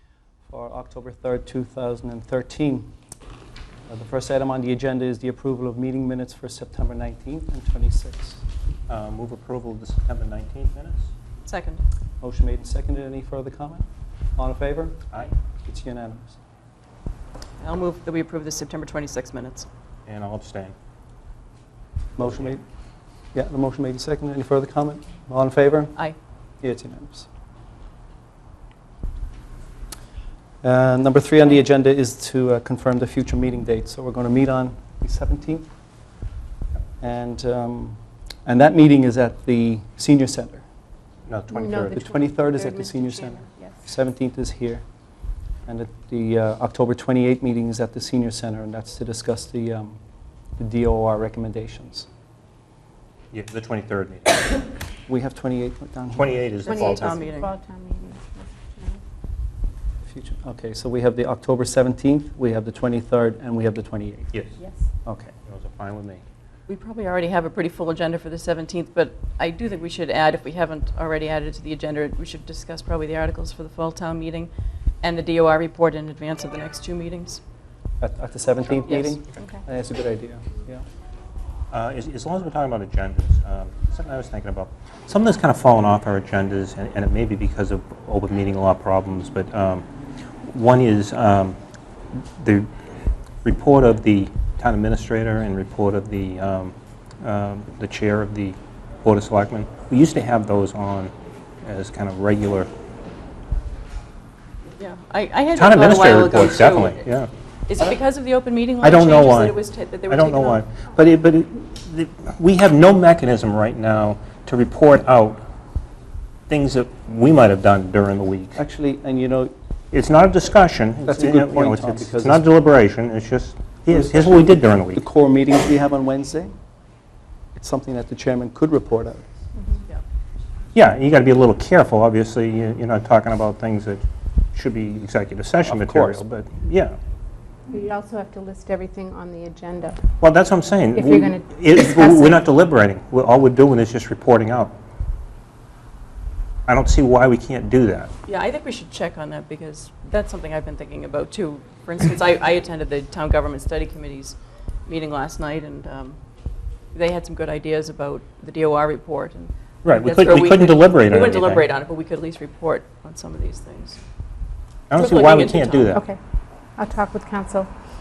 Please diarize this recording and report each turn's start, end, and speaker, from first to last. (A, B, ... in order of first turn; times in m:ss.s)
0:00.5-0:02.9 A
0:03.9-0:08.4 A
0:08.9-0:11.1 B
0:11.4-0:11.8 C
0:12.2-0:13.9 A
0:14.4-0:15.1 A
0:15.6-0:16.4 A
0:17.6-0:19.7 C
0:20.1-0:20.7 B
0:22.2-0:22.6 A
0:23.3-0:25.9 A
0:26.6-0:27.3 A
0:30.6-0:35.7 A
0:37.0-0:40.6 A
0:41.3-0:42.0 B
0:41.5-0:43.8 D
0:41.9-0:44.8 A
0:45.7-0:50.0 A
0:50.6-0:52.1 A
0:53.3-0:54.6 B
0:55.1-0:56.6 A
0:56.2-0:57.2 B
0:56.6-0:57.5 C
0:56.6-0:59.0 D
1:00.1-1:04.4 A
1:04.6-1:04.8 D
1:05.1-1:05.3 A
1:05.4-1:06.2 B
1:06.7-1:14.5 C
1:15.0-1:17.4 C
1:18.0-1:20.8 A
1:18.8-1:19.2 C
1:21.7-1:29.9 B
1:30.5-1:31.6 B
1:32.4-1:32.7 B
1:33.4-1:41.1 B
1:41.6-1:42.7 B
1:44.8-1:47.0 C
1:45.6-1:47.3 B
1:47.7-1:50.6 C
1:48.8-1:49.6 B
1:50.1-1:55.4 B
1:56.5-1:58.6 B
1:58.6-1:59.5 A
1:59.9-2:05.0 B
2:01.1-2:02.5 A
2:03.9-2:06.6 A
2:07.6-2:09.2 A
2:10.7-2:14.0 B
2:14.6-2:17.0 B
2:15.6-2:16.2 A
2:17.7-2:20.0 D
2:20.2-2:24.8 B
2:20.9-2:22.4 D
2:26.7-2:28.1 B
2:28.3-2:36.2 C
2:36.9-2:44.0 C
2:39.8-2:41.7 B
2:44.9-2:46.0 B
2:45.0-2:46.0 C
2:46.8-2:47.7 D